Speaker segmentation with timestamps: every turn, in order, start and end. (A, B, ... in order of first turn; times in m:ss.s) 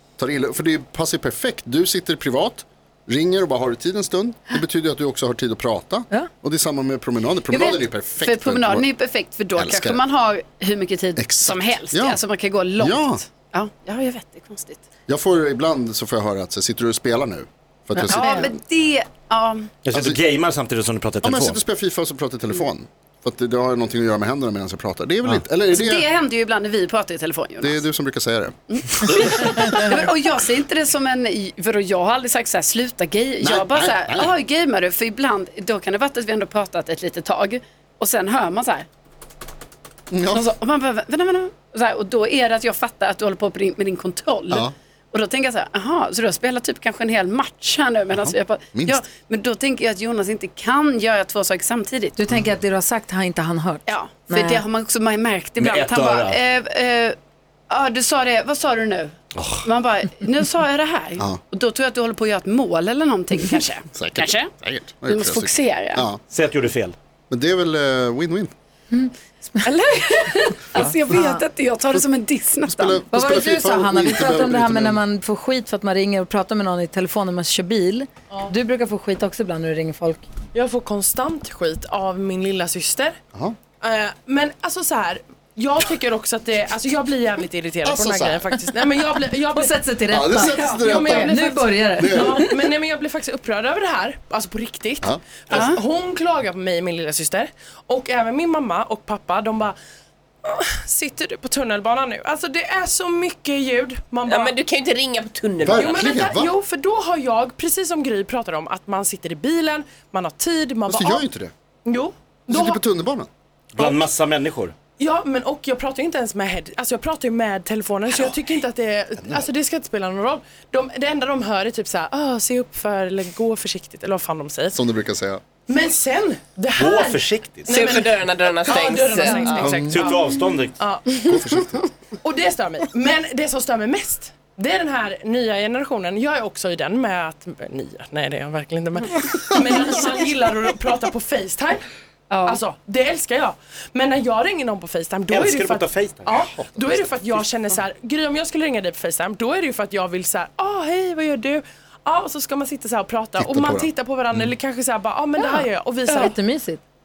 0:00.2-0:08.8 A
0:07.5-0:14.8 B
0:09.6-0:10.0 A
0:11.2-0:12.2 A
0:12.8-0:13.2 A
0:15.1-0:18.4 A
0:17.9-0:18.5 C
0:18.0-0:19.7 B
0:19.8-0:21.6 D
0:19.9-0:20.2 A
0:21.2-0:26.1 A
0:25.7-0:27.8 B
0:27.6-0:29.1 A
0:28.7-0:38.9 B
0:33.4-0:34.3 A
0:40.1-0:40.4 A
0:40.3-0:52.1 B
0:48.2-0:49.0 A
0:52.2-0:54.6 C
0:53.9-0:57.2 B
0:55.6-0:56.4 D
0:57.7-1:04.5 B
0:59.3-0:59.7 D
1:03.9-1:06.2 A
1:05.1-1:06.0 B
1:06.3-1:06.9 D
1:07.3-1:08.5 A
1:08.9-1:11.4 C
1:09.6-1:13.0 B
1:12.6-1:15.0 A
1:13.1-1:20.3 C
1:20.5-1:23.2 E
1:23.8-1:29.8 E
1:27.8-1:28.4 A
1:29.5-1:32.5 C
1:30.1-1:31.4 A
1:30.4-1:39.8 E
1:32.0-1:32.4 A
1:35.0-1:35.7 A
1:35.5-1:35.8 B
1:40.4-1:44.5 E
1:44.3-1:46.0 F
1:45.6-1:46.5 A
1:45.8-1:51.2 E
1:50.9-1:51.5 A
1:51.8-1:52.8 E
1:52.5-1:53.3 A
1:53.7-1:54.7 D
1:55.0-2:04.8 E
2:04.7-2:05.4 A
2:05.7-2:11.4 E
2:06.8-2:08.1 D
2:07.7-2:09.7 F
2:09.5-2:10.0 A
2:09.8-2:10.7 D
2:11.2-2:11.9 A
2:12.2-2:21.8 E
2:22.3-2:22.6 B
2:22.4-2:36.3 E
2:25.3-2:26.3 D
2:26.4-2:27.0 A
2:33.4-2:33.9 A
2:35.4-2:36.8 C